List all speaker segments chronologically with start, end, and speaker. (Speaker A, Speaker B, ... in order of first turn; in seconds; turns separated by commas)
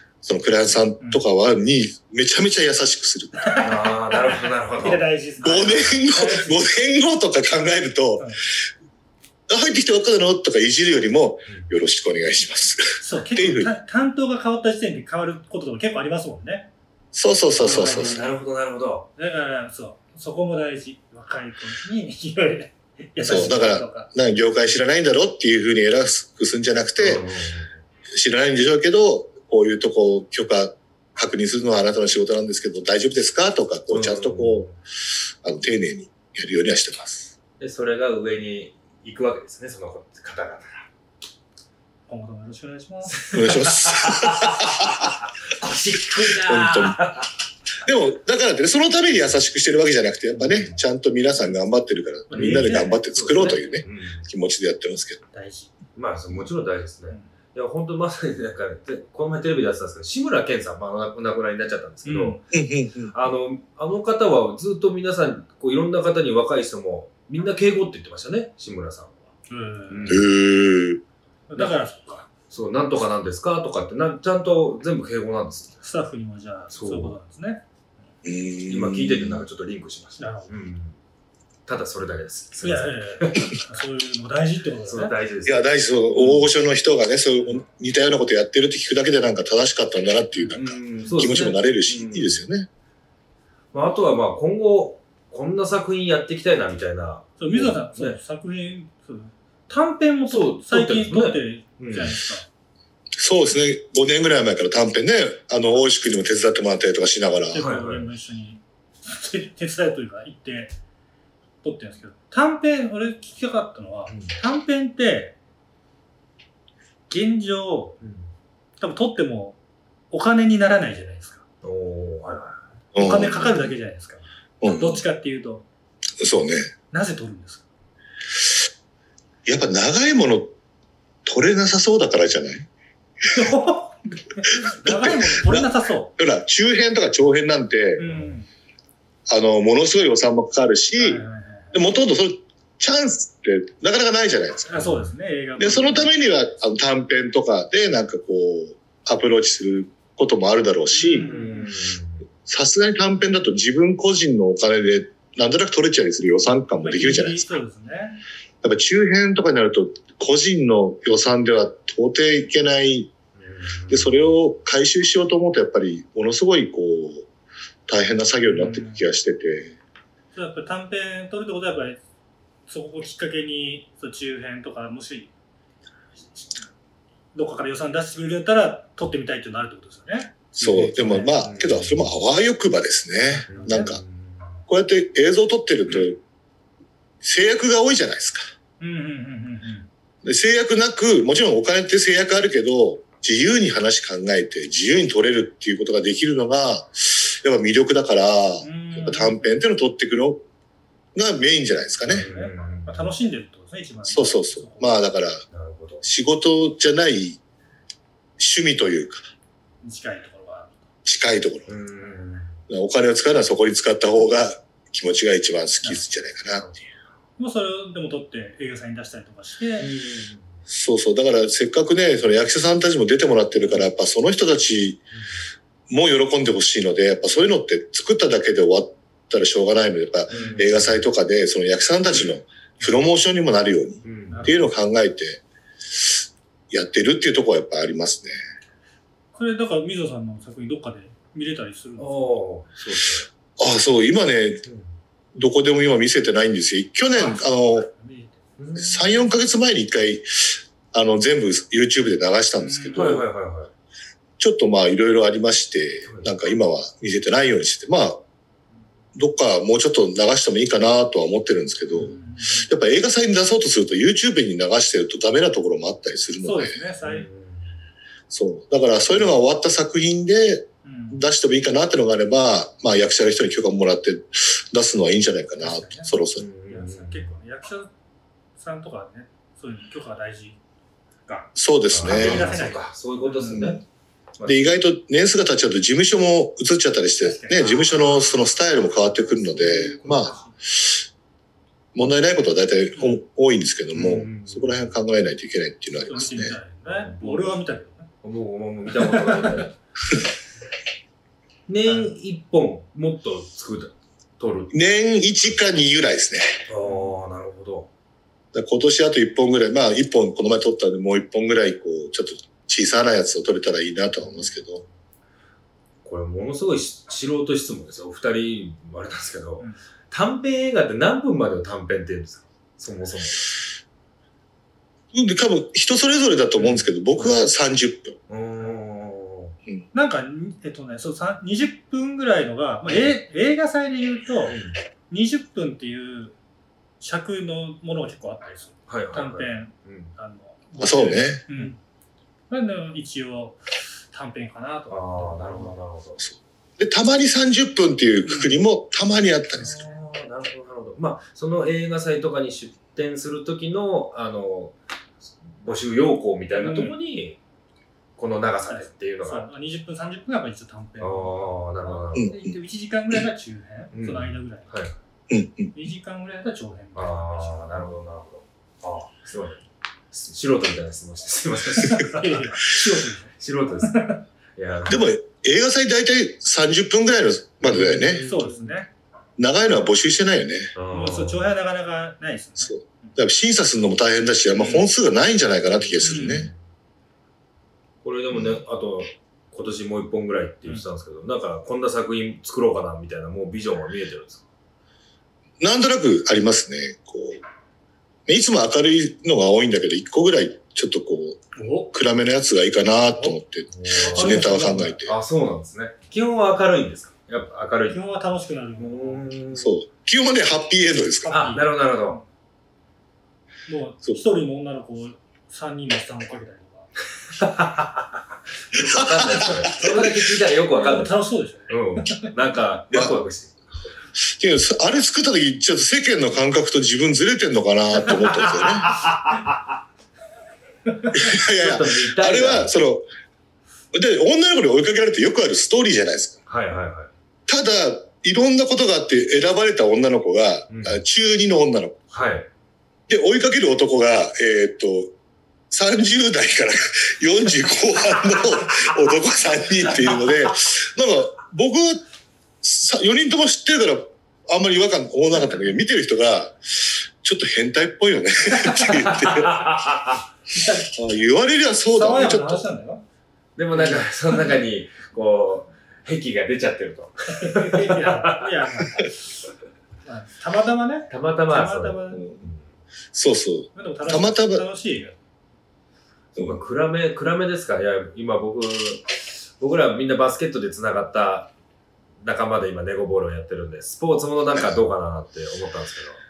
Speaker A: 0.2-3.5, Speaker B: 3.4-6.6, Speaker C: 3.6-5.9, Speaker A: 5.4-8.3, Speaker A: 9.5-13.7, Speaker B: 13.0-16.7, Speaker A: 17.1-18.2, Speaker B: 17.6-18.4, Speaker C: 17.6-19.1, Speaker B: 19.2-24.1, Speaker A: 23.2-27.2, Speaker C: 27.0-27.8, Speaker A: 28.1-34.7, Speaker C: 33.9-34.7, Speaker A: 35.4-37.3, Speaker C: 37.6-40.9, Speaker B: 42.1-43.3, Speaker C: 43.1-47.3, Speaker A: 43.3-45.1, Speaker A: 46.2-47.0, Speaker A: 47.9-55.2, Speaker C: 50.4-50.8, Speaker B: 52.3-53.0, Speaker C: 52.3-54.3, Speaker B: 55.3-55.7, Speaker C: 56.0-62.4, Speaker B: 62.0-62.4, Speaker A: 62.5-63.1, Speaker C: 63.1-69.3, Speaker B: 69.5-70.2, Speaker C: 69.9-70.3, Speaker A: 70.1-71.0, Speaker B: 71.5-72.3, Speaker C: 72.5-75.8, Speaker B: 75.8-77.6, Speaker C: 76.7-77.2, Speaker A: 78.2-79.5, Speaker C: 78.7-81.0, Speaker B: 80.2-80.5, Speaker C: 81.7-83.6, Speaker B: 82.6-85.2, Speaker C: 84.9-86.5, Speaker A: 85.5-92.7, Speaker C: 90.5-92.4, Speaker C: 93.7-98.2, Speaker B: 97.4-102.5, Speaker C: 100.3-102.2, Speaker A: 103.2-107.6, Speaker B: 107.5-110.8, Speaker C: 107.6-108.1, Speaker B: 111.6-115.4, Speaker C: 114.1-114.3, Speaker B: 117.1-118.0, Speaker C: 118.0-118.3, Speaker B: 118.8-119.6, Speaker B: 120.1-121.5, Speaker C: 121.6-122.7, Speaker A: 122.9-123.7, Speaker B: 123.0-125.7, Speaker A: 124.6-125.0, Speaker A: 126.2-126.7, Speaker B: 126.9-127.7, Speaker A: 129.5-130.5, Speaker A: 131.2-132.7, Speaker B: 133.2-136.1, Speaker A: 134.5-138.1, Speaker B: 138.0-138.5, Speaker C: 138.1-138.3, Speaker A: 139.3-141.2, Speaker B: 141.0-141.8, Speaker A: 141.7-144.7, Speaker B: 144.7-146.1, Speaker C: 144.7-145.1, Speaker A: 145.6-151.3, Speaker B: 150.9-151.7, Speaker C: 151.2-152.2, Speaker A: 152.5-157.5, Speaker B: 156.8-158.2, Speaker A: 158.6-163.1, Speaker C: 163.4-164.3, Speaker A: 163.9-167.3, Speaker A: 167.9-169.8, Speaker B: 168.5-169.1, Speaker B: 170.3-172.0, Speaker B: 172.7-175.3, Speaker B: 176.2-176.6, Speaker B: 177.3-181.4, Speaker A: 180.6-184.0, Speaker C: 180.6-182.1, Speaker B: 183.3-184.0, Speaker C: 183.5-184.5, Speaker A: 184.7-186.2, Speaker A: 187.2-188.5, Speaker B: 188.8-189.9, Speaker A: 190.2-200.4, Speaker B: 198.6-199.6, Speaker A: 201.2-202.3, Speaker B: 202.1-205.0, Speaker C: 202.1-203.2, Speaker A: 204.1-205.4, Speaker C: 205.5-206.1, Speaker A: 206.0-207.4, Speaker A: 208.4-209.3, Speaker B: 209.8-210.9, Speaker A: 211.1-211.7, Speaker C: 211.7-212.6, Speaker A: 212.7-216.7, Speaker C: 216.5-216.8, Speaker B: 217.4-219.9, Speaker C: 219.8-220.5, Speaker A: 220.7-225.0, Speaker A: 225.9-235.4, Speaker C: 230.3-231.0, Speaker B: 230.3-230.6, Speaker C: 234.0-234.6, Speaker B: 234.3-234.7, Speaker A: 236.7-238.4, Speaker B: 239.3-242.2, Speaker C: 242.0-243.3, Speaker A: 243.6-244.7, Speaker C: 244.7-244.9, Speaker A: 245.3-247.9, Speaker B: 247.1-248.4, Speaker C: 248.6-249.1, Speaker A: 248.8-253.2, Speaker B: 252.6-253.2, Speaker C: 252.9-253.7, Speaker A: 254.4-258.2, Speaker C: 256.0-256.3, Speaker A: 259.1-266.8, Speaker B: 261.9-262.7, Speaker B: 266.4-267.3, Speaker C: 267.0-267.8, Speaker A: 268.3-276.5, Speaker B: 270.8-271.3, Speaker B: 275.6-276.1, Speaker C: 276.4-277.3, Speaker B: 276.7-277.9, Speaker B: 278.6-280.6, Speaker A: 281.6-282.5, Speaker C: 281.9-283.8, Speaker B: 282.0-283.7, Speaker A: 283.5-283.8, Speaker C: 284.4-284.8, Speaker A: 284.5-291.0, Speaker B: 287.2-290.5, Speaker C: 289.6-290.4, Speaker A: 291.9-296.6, Speaker B: 292.9-293.2, Speaker C: 293.9-294.9, Speaker B: 296.1-298.1, Speaker C: 296.9-297.6, Speaker C: 298.2-299.8, Speaker B: 299.0-299.6, Speaker C: 301.7-304.7, Speaker B: 301.9-302.1, Speaker A: 304.7-306.6, Speaker C: 306.7-307.9, Speaker B: 306.8-307.1, Speaker A: 308.5-314.8, Speaker C: 314.2-314.9, Speaker C: 316.0-323.5, Speaker A: 325.1-328.2, Speaker C: 326.6-327.4, Speaker C: 328.3-329.6, Speaker B: 329.9-334.6, Speaker C: 334.4-334.8, Speaker B: 335.1-336.4, Speaker B: 337.0-341.8, Speaker C: 338.9-340.1, Speaker A: 340.8-341.4, Speaker B: 342.5-345.8, Speaker C: 344.9-346.2, Speaker A: 346.2-349.8, Speaker B: 348.2-348.6, Speaker C: 349.6-354.8, Speaker C: 355.4-357.4, Speaker B: 356.5-356.9, Speaker C: 358.2-359.5, Speaker B: 358.7-364.7, Speaker C: 361.0-362.3, Speaker A: 362.1-362.4, Speaker C: 363.9-364.9, Speaker A: 365.3-365.7, Speaker B: 365.7-367.8, Speaker C: 366.9-372.8, Speaker B: 371.8-374.2, Speaker C: 373.4-375.1, Speaker A: 374.9-378.2, Speaker C: 377.6-378.7, Speaker B: 377.7-378.9, Speaker A: 379.4-380.7, Speaker C: 380.8-381.5, Speaker B: 380.9-383.2, Speaker A: 382.6-386.5, Speaker C: 384.6-384.9, Speaker C: 385.7-386.6, Speaker B: 386.0-386.5, Speaker C: 388.0-394.4, Speaker A: 395.6-397.4, Speaker A: 398.3-405.1, Speaker B: 401.6-401.9, Speaker B: 403.1-403.4, Speaker C: 403.7-408.0, Speaker B: 403.9-405.0, Speaker B: 407.9-409.3, Speaker C: 408.8-409.8, Speaker A: 409.6-411.4, Speaker B: 411.2-412.2, Speaker C: 411.3-412.2, Speaker B: 413.7-416.9, Speaker C: 417.3-418.1, Speaker C: 418.7-423.5, Speaker A: 418.8-419.8, Speaker B: 419.6-422.3, Speaker A: 422.9-423.2, Speaker A: 424.2-428.9, Speaker C: 428.6-429.5, Speaker A: 431.1-433.1, Speaker C: 431.3-432.7, Speaker A: 433.9-436.4, Speaker C: 436.5-437.1, Speaker A: 437.5-442.1, Speaker C: 440.7-441.0, Speaker C: 442.1-442.5, Speaker A: 443.1-445.1, Speaker A: 445.7-452.0, Speaker C: 450.0-450.5, Speaker A: 452.6-459.7, Speaker C: 458.7-460.2, Speaker B: 460.5-460.9, Speaker A: 460.9-462.6, Speaker B: 461.9-463.0, Speaker C: 463.6-468.6, Speaker B: 463.7-464.5, Speaker B: 467.3-469.2, Speaker B: 470.1-472.3, Speaker C: 471.1-472.6, Speaker A: 473.1-474.6, Speaker B: 473.8-475.2, Speaker C: 476.4-481.5, Speaker C: 482.2-486.2